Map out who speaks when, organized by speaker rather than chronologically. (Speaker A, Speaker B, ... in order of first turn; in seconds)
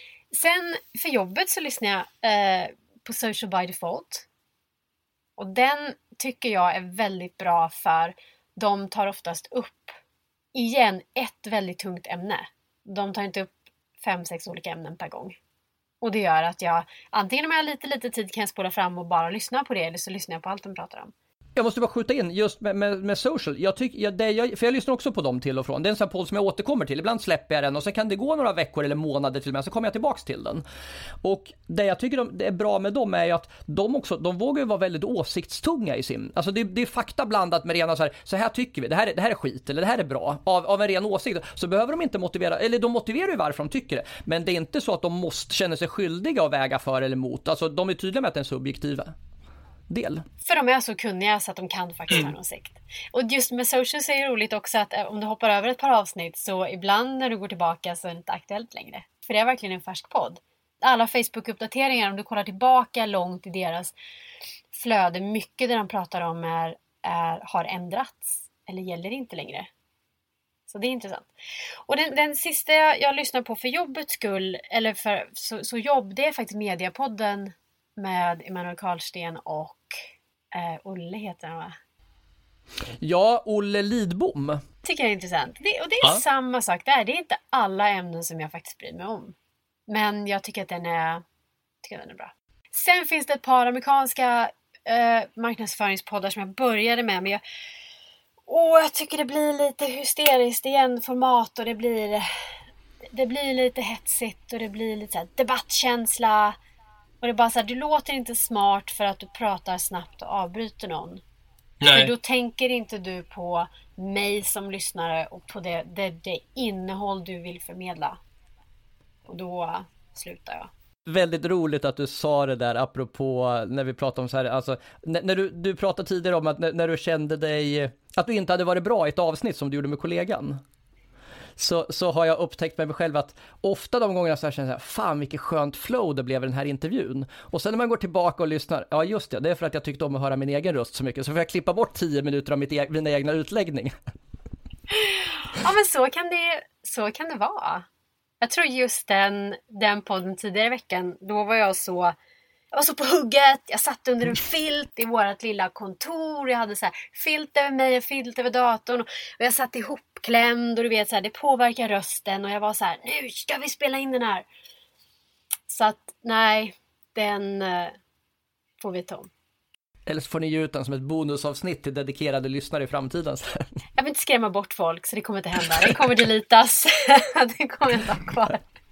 Speaker A: 0.3-4.3, 5.4-9.9, 10.5-15.4, 16.0-21.1, 50.4-63.9, 64.7-69.7, 70.7-80.0, 80.5-81.8, 84.8-89.3, 89.9-91.2, 91.8-97.4, 98.5-102.3, 103.1-106.6, 107.2-111.2, 111.8-118.2, 119.2-120.7, 144.9-147.9, 148.4-152.1, 152.7-164.4, 165.7-167.9, 168.8-169.3, 174.0-178.7
Speaker B: 21.6-30.6, 31.2-49.1, 49.9-50.2, 83.0-84.6, 121.0-130.6, 131.6-143.9, 170.1-173.7